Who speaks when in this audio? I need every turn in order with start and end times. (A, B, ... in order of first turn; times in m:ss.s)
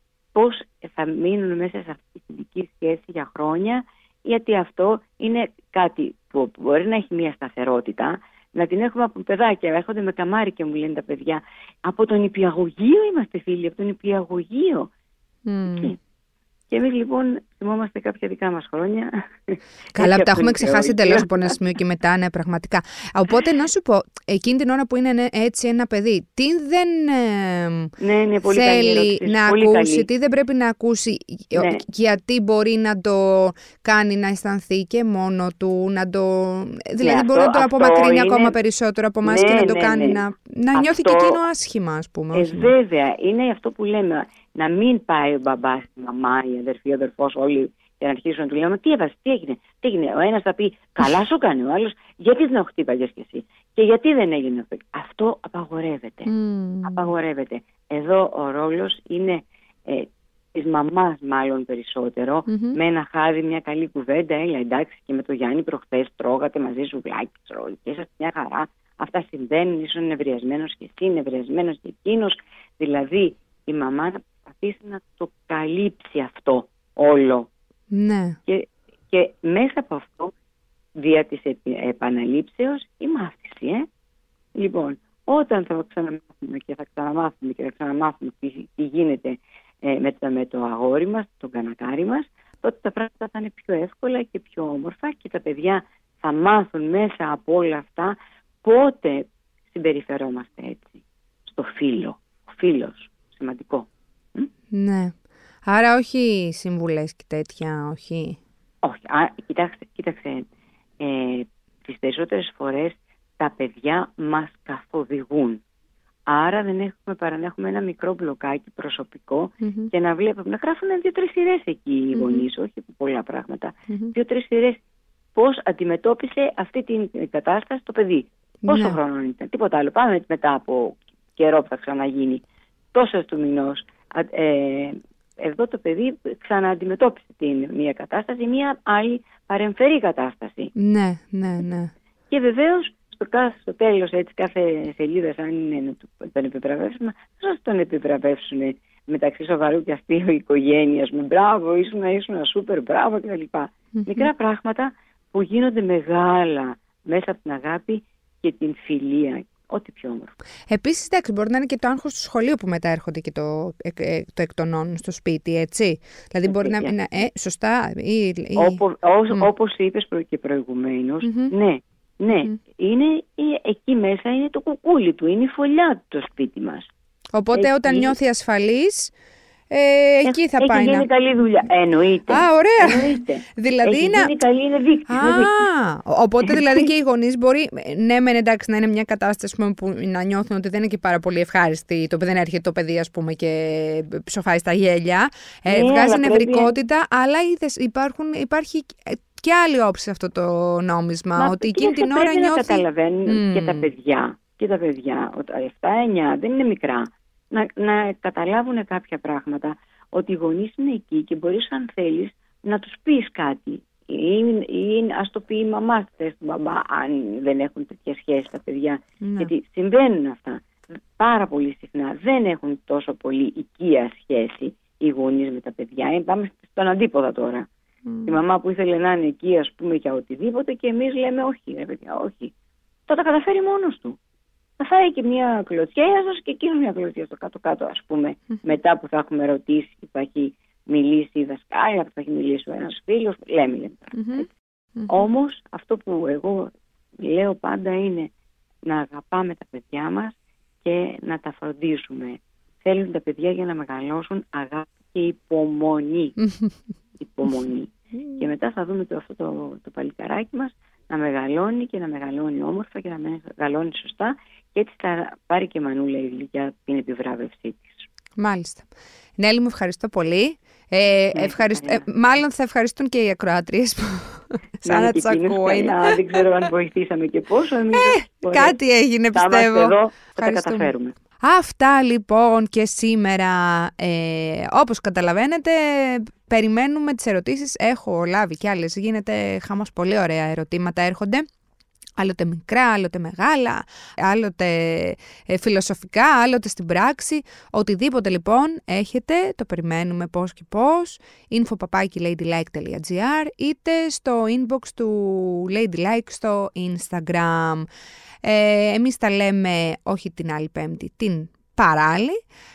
0:00.3-0:14.9 A
0:15.4-0:15.9 B
0:15.6-0:16.0 A
0:16.7-0:21.6 A
0:19.9-0:27.9 B
0:28.0-0:30.1 A
0:28.4-0:42.7 B
0:31.5-0:31.8 A
0:37.0-0:38.5 A
0:39.2-0:40.2 A
0:40.7-0:41.4 A
0:42.3-0:56.3 A
0:56.3-0:57.1 B
0:56.8-1:17.5 A
1:02.5-1:02.8 B
1:17.9-1:18.4 B
1:18.4-1:20.3 A
1:21.0-1:23.9 A
1:24.5-1:44.5 A
1:44.7-1:48.4 B
1:48.8-1:50.5 A
1:51.0-1:55.6 A
1:56.3-2:04.8 A
1:59.6-1:59.9 B
2:02.1-2:02.4 B
2:05.3-2:12.4 A
2:08.6-2:09.0 B
2:12.9-2:20.7 A
2:20.7-2:21.9 B
2:22.3-2:40.4 A
2:34.0-2:34.2 B
2:40.7-2:49.5 B
2:46.4-2:46.9 A
2:48.6-2:56.9 A
2:51.2-2:51.5 B
2:57.3-2:59.1 B
2:57.5-2:58.1 A
2:59.7-3:01.0 B
3:00.2-3:05.7 A
3:02.3-3:04.3 B
3:05.1-3:23.9 B
3:15.6-3:16.7 A
3:21.4-3:40.6 A
3:39.2-3:39.5 B
3:41.2-3:47.7 A
3:48.0-3:48.4 B
3:48.2-3:52.5 A
3:53.1-3:54.2 A
3:54.8-4:04.5 A
4:04.2-4:04.4 B
4:05.0-4:05.2 B
4:05.1-4:08.3 A
4:08.8-4:16.4 A
4:17.2-4:28.1 A
4:28.4-4:36.2 B
4:31.3-4:32.0 A
4:34.8-4:38.8 A
4:37.9-4:51.4 B
4:39.3-4:41.2 A
4:52.2-5:07.9 B
5:08.4-5:12.4 B